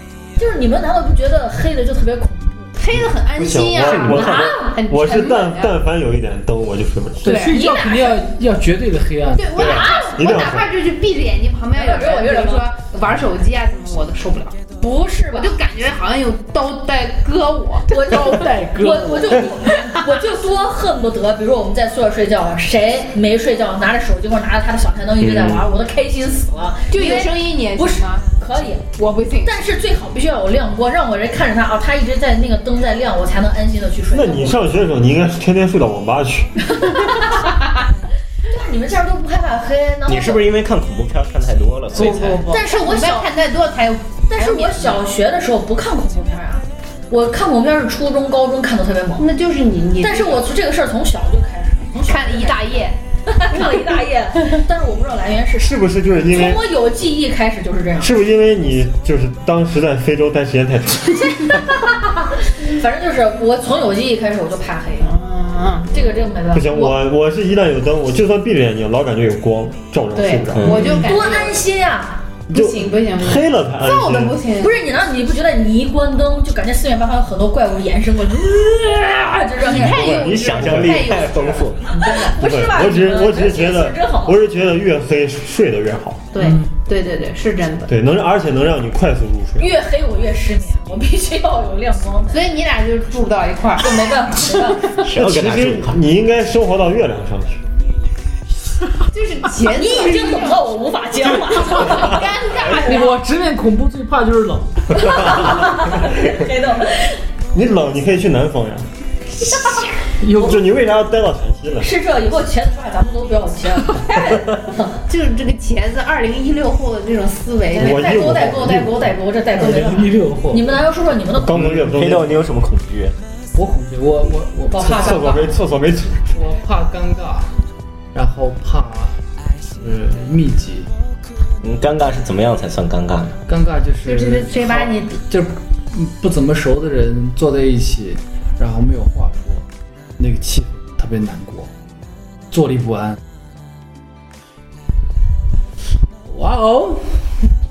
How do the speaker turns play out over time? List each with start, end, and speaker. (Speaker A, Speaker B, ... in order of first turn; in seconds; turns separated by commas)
Speaker A: 0.4-2.7, Speaker B: 2.8-5.8, Speaker C: 2.9-7.4, Speaker D: 3.8-4.5, Speaker A: 4.1-4.8, Speaker E: 7.2-9.6, Speaker B: 7.2-7.8, Speaker A: 7.5-8.2, Speaker B: 9.3-14.6, Speaker C: 9.5-10.7, Speaker A: 9.6-10.2, Speaker A: 11.8-12.7, Speaker A: 14.8-15.6, Speaker B: 15.3-17.9, Speaker E: 17.9-20.0, Speaker A: 17.9-28.9, Speaker D: 25.2-25.7, Speaker B: 26.9-28.2, Speaker B: 29.0-29.7, Speaker A: 29.4-34.8, Speaker C: 34.1-36.7, Speaker A: 36.8-37.5, Speaker B: 37.0-37.7, Speaker A: 38.5-40.5, Speaker D: 40.1-42.5, Speaker B: 41.9-45.0, Speaker A: 42.5-43.3, Speaker A: 44.3-49.3, Speaker B: 49.2-50.5, Speaker A: 50.0-58.2, Speaker B: 52.0-53.0, Speaker C: 55.6-56.7, Speaker C: 58.0-61.5, Speaker A: 61.5-65.1, Speaker B: 65.0-66.6, Speaker A: 65.9-67.0, Speaker C: 66.5-70.9, Speaker B: 70.2-71.6, Speaker D: 70.6-70.8, Speaker A: 70.8-72.3, Speaker B: 72.5-74.8, Speaker C: 72.5-74.4, Speaker A: 74.6-80.4, Speaker B: 79.6-82.3, Speaker C: 79.8-81.2, Speaker D: 79.9-81.9, Speaker A: 82.0-84.5, Speaker C: 82.3-86.3, Speaker B: 86.3-87.9, Speaker E: 86.4-86.7, Speaker C: 87.9-89.7, Speaker A: 89.6-92.5, Speaker B: 92.3-95.0, Speaker A: 93.8-95.0, Speaker D: 94.9-96.0, Speaker C: 95.2-97.6, Speaker B: 99.1-100.6, Speaker A: 99.8-103.1, Speaker B: 101.5-103.2, Speaker E: 102.8-105.1, Speaker A: 105.0-107.2, Speaker C: 107.5-108.9, Speaker E: 110.2-110.6, Speaker C: 110.3-112.0, Speaker A: 111.8-115.0, Speaker B: 115.1-118.1, Speaker A: 117.7-121.8, Speaker C: 117.8-119.2, Speaker E: 119.5-120.8, Speaker C: 121.3-122.5, Speaker D: 121.6-123.2, Speaker E: 123.5-125.3, Speaker A: 124.7-125.6, Speaker C: 125.0-126.5, Speaker E: 126.3-127.5, Speaker E: 128.1-129.2, Speaker E: 129.8-130.9, Speaker D: 131.6-133.4, Speaker E: 133.5-139.7, Speaker B: 134.1-135.2, Speaker E: 140.2-141.7, Speaker E: 142.5-143.2, Speaker E: 146.3-147.2